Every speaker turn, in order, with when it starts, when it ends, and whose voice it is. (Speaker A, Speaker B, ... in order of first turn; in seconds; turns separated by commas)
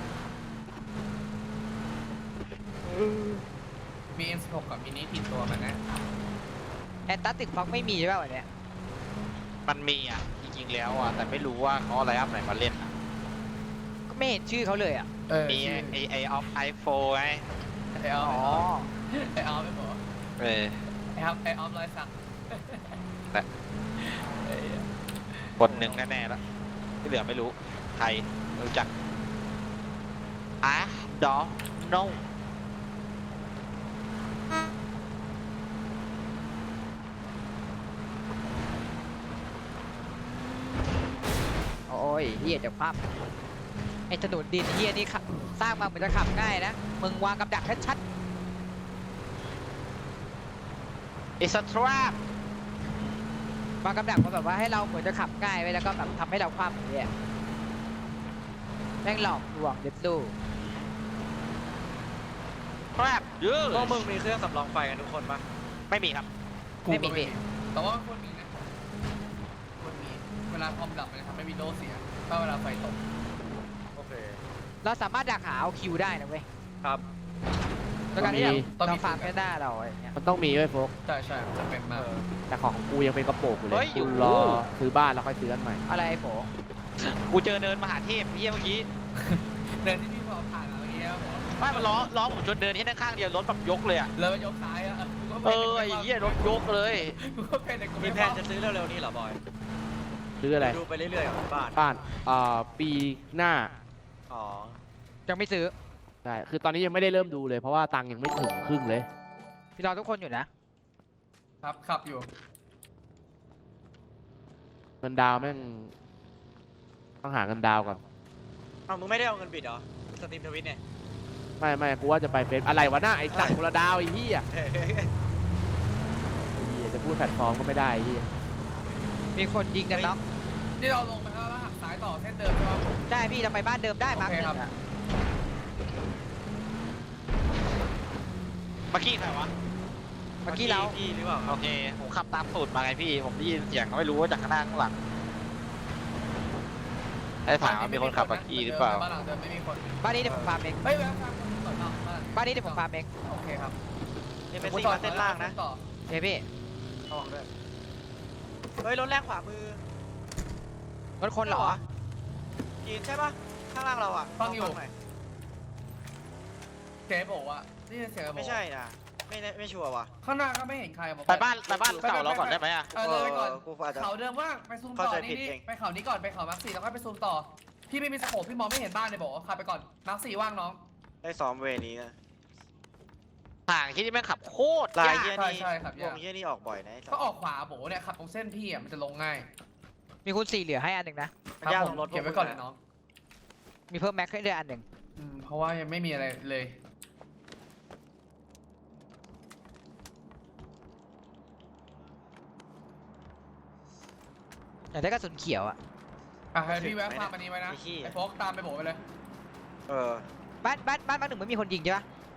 Speaker A: 4.2-5.8, Speaker B: 7.1-8.5, Speaker C: 9.7-12.9, Speaker B: 14.1-15.1, Speaker A: 15.3-16.0, Speaker C: 15.5-17.4, Speaker A: 17.9-20.0, Speaker B: 18.2-18.9, Speaker C: 20.4-20.8, Speaker A: 21.1-23.0, Speaker A: 24.0-26.0, Speaker C: 25.6-26.4, Speaker C: 27.0-28.9, Speaker C: 30.6-32.2, Speaker B: 41.9-43.0, Speaker B: 44.1-48.0, Speaker C: 51.4-52.1, Speaker B: 53.8-57.1, Speaker B: 59.0-60.4, Speaker C: 63.0-64.1, Speaker D: 63.7-65.4, Speaker C: 65.9-66.3, Speaker A: 66.8-68.5, Speaker B: 66.9-67.3, Speaker A: 69.8-73.0, Speaker D: 74.0-74.4, Speaker B: 74.8-76.5, Speaker B: 78.1-80.2, Speaker E: 78.2-78.7, Speaker A: 78.2-79.3, Speaker E: 80.2-80.9, Speaker A: 81.1-82.1, Speaker D: 81.9-82.3, Speaker E: 82.5-85.8, Speaker C: 83.7-84.6, Speaker B: 85.9-86.5, Speaker C: 87.0-88.9, Speaker A: 89.2-92.1, Speaker C: 91.6-94.1, Speaker A: 94.2-98.4, Speaker C: 95.4-97.2, Speaker D: 98.0-99.4, Speaker E: 100.4-100.8, Speaker D: 100.6-101.8, Speaker E: 101.8-103.7, Speaker D: 104.3-104.8, Speaker B: 105.3-105.7, Speaker E: 106.2-109.1, Speaker B: 109.8-110.5, Speaker A: 111.6-112.3, Speaker E: 115.0-115.9, Speaker E: 117.2-118.0, Speaker D: 118.9-120.8, Speaker E: 121.6-124.5, Speaker D: 123.3-123.6, Speaker D: 124.5-125.1, Speaker E: 126.5-128.3, Speaker B: 129.3-130.2, Speaker A: 130.8-133.0, Speaker B: 133.1-134.7, Speaker A: 134.1-134.6, Speaker C: 138.9-139.5, Speaker B: 140.5-140.9, Speaker D: 140.5-141.6, Speaker C: 141.5-145.0, Speaker C: 147.5-149.1, Speaker A: 147.6-149.9, Speaker B: 150.0-150.8, Speaker D: 150.2-150.6, Speaker A: 150.8-153.8, Speaker B: 152.4-153.1, Speaker D: 154.5-155.6, Speaker A: 154.6-155.8, Speaker B: 156.1-156.5, Speaker D: 157.1-157.5, Speaker D: 158.8-159.8, Speaker B: 161.2-161.8, Speaker D: 161.4-161.8, Speaker D: 162.8-164.9, Speaker A: 164.4-164.8, Speaker A: 167.1-168.6, Speaker D: 168.3-170.1, Speaker A: 170.2-180.8, Speaker C: 171.3-172.9, Speaker D: 171.7-172.1, Speaker D: 173.0-174.1, Speaker D: 174.9-175.6, Speaker D: 181.2-182.1, Speaker C: 183.7-185.3, Speaker D: 184.9-187.2, Speaker A: 185.3-186.2, Speaker A: 187.1-189.5, Speaker B: 190.2-191.3, Speaker D: 191.6-192.6, Speaker A: 191.6-192.8, Speaker B: 193.9-194.8, Speaker A: 195.2-196.8, Speaker B: 204.9-205.8, Speaker A: 206.5-209.0, Speaker D: 206.7-208.2, Speaker D: 209.9-210.2, Speaker B: 210.6-212.1